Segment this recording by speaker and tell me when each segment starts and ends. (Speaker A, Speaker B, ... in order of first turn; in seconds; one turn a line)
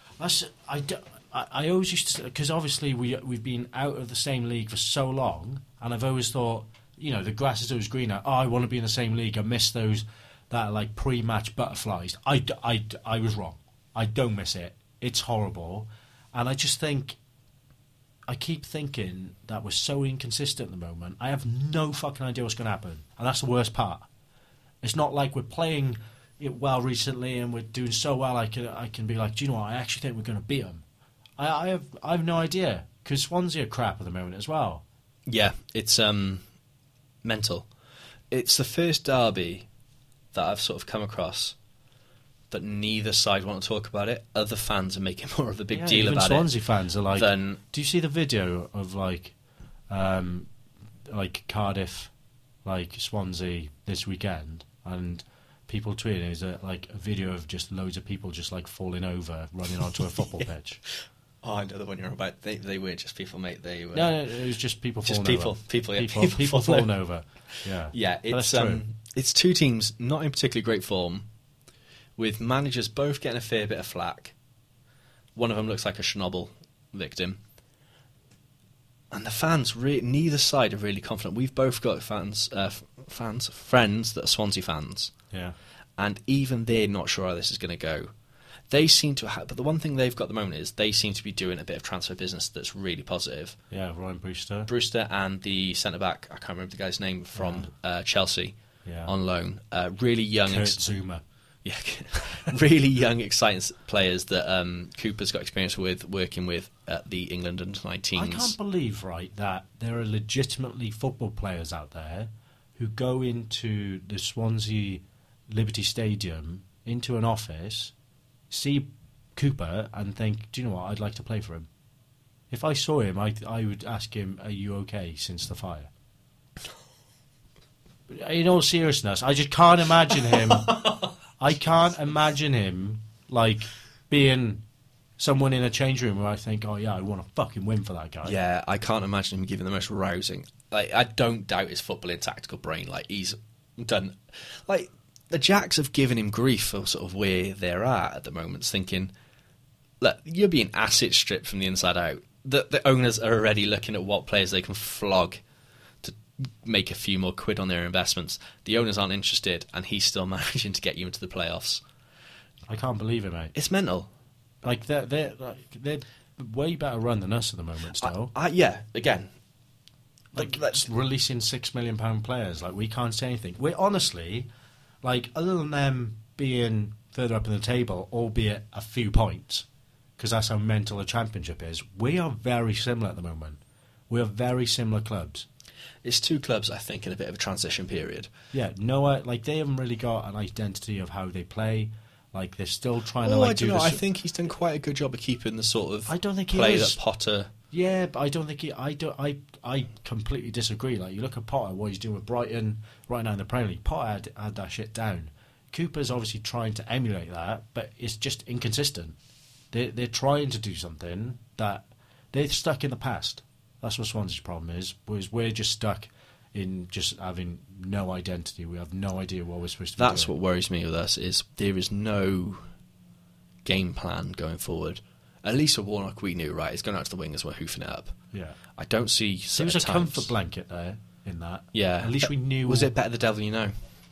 Speaker A: 0.2-17.2
Speaker A: 18.3-24.1
Speaker A: 24.8-30.8
Speaker A: 31.4-34.8
Speaker B: 35.3-36.4
Speaker B: 37.2-37.7
Speaker B: 38.3-39.7
Speaker B: 40.3-41.6
Speaker B: 42.5-46.5
Speaker A: 45.7-49.4
Speaker B: 47.1-47.6
Speaker A: 49.9-50.5
Speaker A: 51.1-52.1
Speaker A: 52.6-60.8
Speaker B: 61.4-64.2
Speaker A: 63.9-68.8
Speaker B: 65.0-66.9
Speaker B: 67.5-71.3
Speaker B: 72.2-74.3
Speaker B: 75.4-77.4
Speaker B: 79.1-85.1
Speaker A: 85.3-85.6
Speaker B: 86.0-88.1
Speaker B: 88.7-93.6
Speaker A: 93.7-94.7
Speaker B: 94.7-100.8
Speaker A: 97.3-97.7
Speaker A: 98.8-99.1
Speaker A: 100.5-101.2
Speaker B: 101.7-108.5
Speaker A: 108.2-117.9
Speaker A: 118.5-121.7
Speaker A: 122.5-125.9
Speaker A: 128.1-134.6
Speaker A: 135.2-138.4
Speaker B: 138.2-149.1
Speaker B: 150.0-155.4
Speaker B: 156.0-161.8
Speaker A: 162.7-163.5
Speaker B: 163.6-164.1
Speaker A: 164.6-168.3
Speaker B: 168.0-169.3
Speaker B: 170.3-170.8
Speaker A: 170.3-174.5
Speaker A: 175.0-179.7
Speaker A: 180.2-185.5
Speaker B: 186.0-188.3
Speaker A: 188.5-194.0
Speaker B: 193.2-197.5
Speaker A: 196.1-197.0
Speaker A: 197.7-209.2
Speaker A: 209.7-220.3
Speaker B: 220.0-222.7
Speaker B: 223.7-228.2
Speaker A: 228.3-228.6
Speaker B: 228.8-230.3
Speaker A: 229.6-232.9
Speaker B: 231.7-233.8